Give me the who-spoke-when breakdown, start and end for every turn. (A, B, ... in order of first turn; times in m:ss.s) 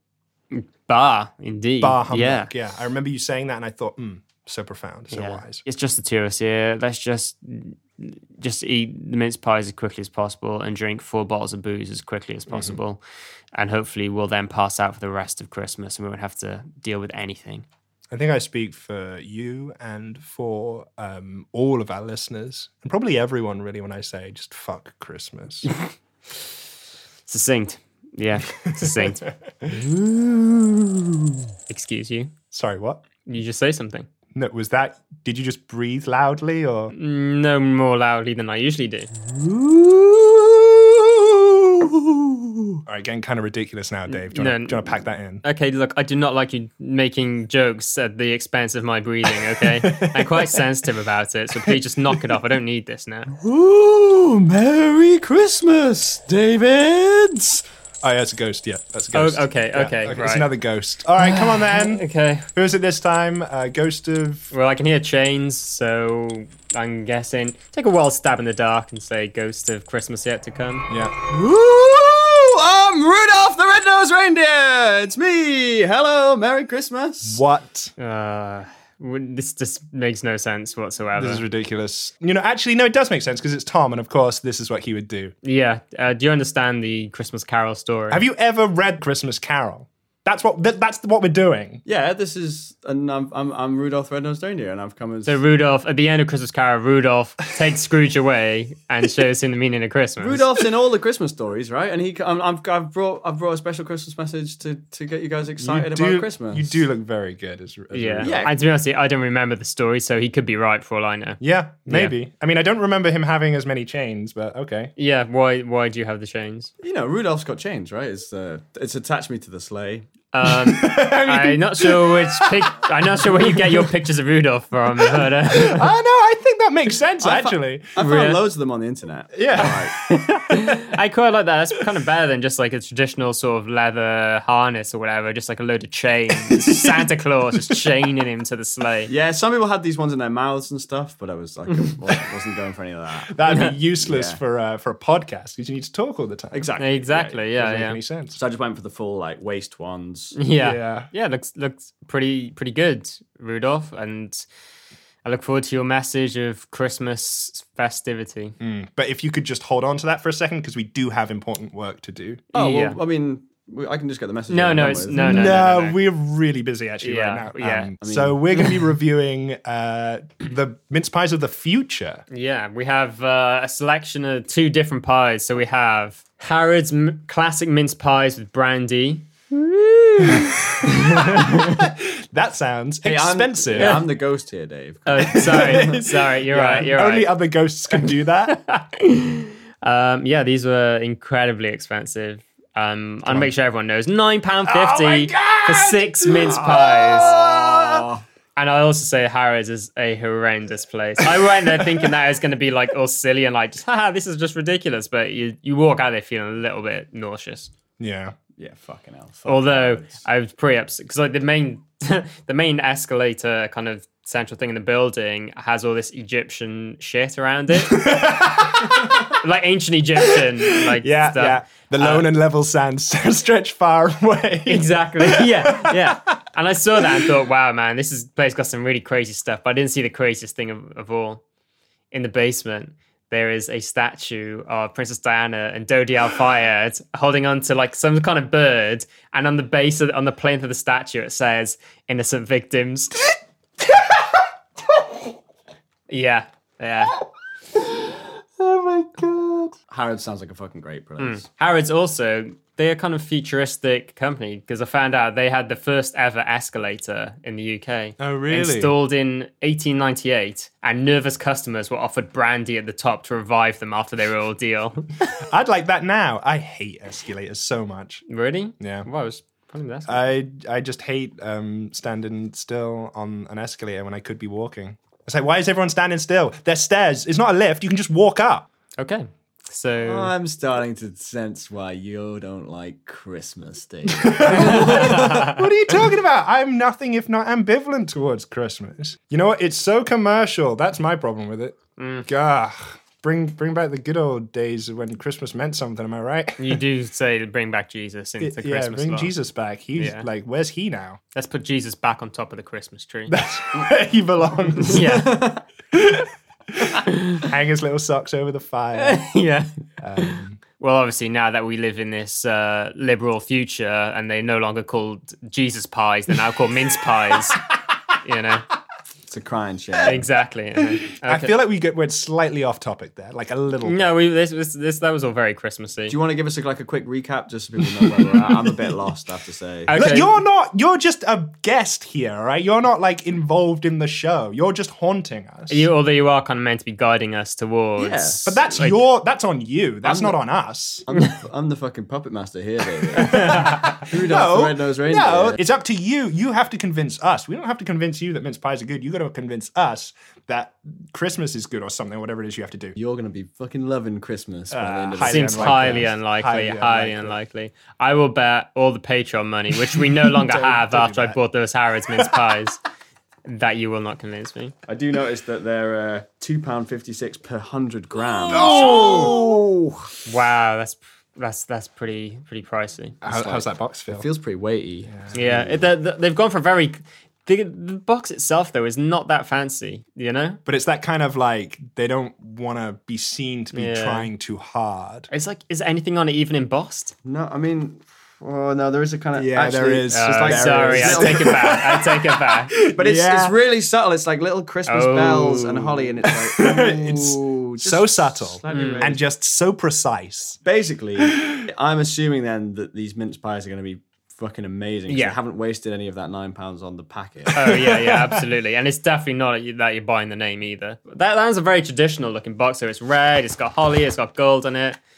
0:00.5-0:02.5 A
0:01.8-0:05.6 B
0:05.1-0:13.0 A
0:12.5-0:12.8 B
0:13.5-0:17.6 A
0:18.1-0:25.7 B
0:27.3-0:29.3 A
0:28.7-0:29.8 B
0:29.9-0:30.9 C
0:31.7-0:32.3 A
0:32.5-0:33.0 B
0:33.3-0:34.1 A
0:34.3-0:36.9 B
0:36.9-0:39.1 A
0:39.4-0:41.3 C
0:41.9-0:42.8 C
0:42.9-0:45.4 B
0:44.1-0:53.3 A
0:49.6-0:50.6 B
0:53.4-0:57.6 C
0:58.0-1:04.5 B
0:59.1-1:00.5 A
1:01.2-1:02.5 A
1:04.5-1:10.9 A
1:10.9-1:11.2 B
1:11.3-1:17.4 C
1:17.2-1:17.9 B
1:18.0-1:21.4 A
1:21.2-1:25.3 B
1:25.4-1:28.2 A
1:28.1-1:31.8 B
1:31.9-1:35.4 C
1:35.3-1:40.4 A
1:40.2-1:46.8 C
1:45.6-1:48.5 B
1:47.9-1:48.6 C
1:47.9-1:52.2 A
1:51.4-1:54.9 B
1:55.0-1:56.7 A
1:56.8-2:00.1 C
2:00.3-2:05.9 A
2:00.4-2:03.9 B
2:05.0-2:07.9 B
2:07.2-2:10.0 C
2:08.0-2:08.4 A
2:09.3-2:10.8 B
2:09.6-2:19.1 A
2:19.1-2:23.4 C
2:23.3-2:28.4 B
2:23.5-2:23.7 A
2:24.0-2:24.4 C
2:26.5-2:27.3 C
2:26.8-2:28.0 A
2:28.4-2:30.4 C
2:30.4-2:34.4 A
2:30.6-2:31.1 B
2:35.2-2:38.6 A
2:38.6-2:42.4 B
2:42.5-2:45.6 C
2:42.5-2:43.0 A
2:44.5-2:46.0 A
2:45.2-2:52.2 B
2:47.0-2:47.9 A
2:48.0-2:48.4 C
2:52.3-2:59.3 A
2:59.8-3:04.0 B
3:00.2-3:01.8 A
3:03.0-3:06.0 C
3:03.8-3:04.0 A
3:05.1-3:07.3 A
3:05.2-3:08.6 B
3:07.9-3:17.3 A
3:13.3-3:13.5 B
3:14.6-3:18.1 B
3:16.6-3:18.2 C
3:18.6-3:27.7 A
3:21.4-3:22.1 B
3:28.0-3:28.4 B
3:28.6-3:30.3 C
3:29.5-3:38.0 A
3:37.8-3:39.3 B
3:39.3-3:42.3 A
3:40.2-3:46.3 B
3:44.7-3:51.4 A
3:47.0-3:47.3 B
3:52.1-4:03.2 A
4:03.9-4:04.2 B
4:06.1-4:07.1 A
4:08.6-4:09.8 B
4:09.9-4:11.5 C
4:11.2-4:25.2 A
4:18.2-4:18.9 B
4:25.3-4:28.3 B
4:28.3-4:30.3 A
4:28.8-4:29.1 B
4:30.1-4:38.7 B
4:39.0-4:40.3 A
4:40.0-4:45.5 C
4:44.1-4:56.8 B
4:44.5-4:45.6 A
4:52.0-4:52.3 A
4:56.6-4:59.3 A
4:58.4-5:01.2 B
5:00.0-5:00.3 A
5:01.3-5:03.4 A
5:03.3-5:05.3 B
5:04.8-5:05.5 A
5:05.0-5:05.6 C
5:05.9-5:06.8 B
5:07.1-5:07.4 A
5:07.4-5:09.4 B
5:09.0-5:17.6 A
5:10.0-5:10.6 B
5:18.2-5:18.7 A
5:19.3-5:20.2 C
5:20.1-5:21.6 A
5:20.8-5:24.0 B
5:23.8-5:26.2 A
5:26.1-5:29.9 C
5:28.3-5:28.8 B
5:29.9-5:30.4 A
5:29.9-5:35.9 B
5:35.7-5:39.0 A
5:38.0-5:38.5 C
5:38.4-5:41.1 B
5:40.0-5:40.4 C
5:41.1-5:45.6 C
5:43.2-5:53.0 B
5:43.2-5:43.8 A
5:53.0-5:56.1 C
5:54.7-5:57.4 B
5:55.2-6:02.8 A
5:59.8-6:01.4 B
6:03.4-6:04.7 A
6:04.9-6:10.0 C
6:08.5-6:09.6 B
6:08.7-6:09.3 A
6:10.3-6:13.2 A
6:13.2-6:14.3 B
6:13.3-6:15.7 C
6:15.1-6:15.5 B
6:15.3-6:20.6 A
6:20.6-6:25.3 B
6:23.7-6:24.3 A
6:25.3-6:27.2 A
6:27.2-6:31.6 C
6:29.3-6:33.6 B
6:30.1-6:32.7 A
6:33.0-6:39.2 C
6:34.9-6:35.9 A
6:36.4-6:40.6 B
6:38.7-6:39.1 A
6:40.6-6:47.8 C
6:41.2-6:41.6 B
6:45.1-6:45.4 A
6:47.5-6:55.0 A
6:47.6-6:48.4 B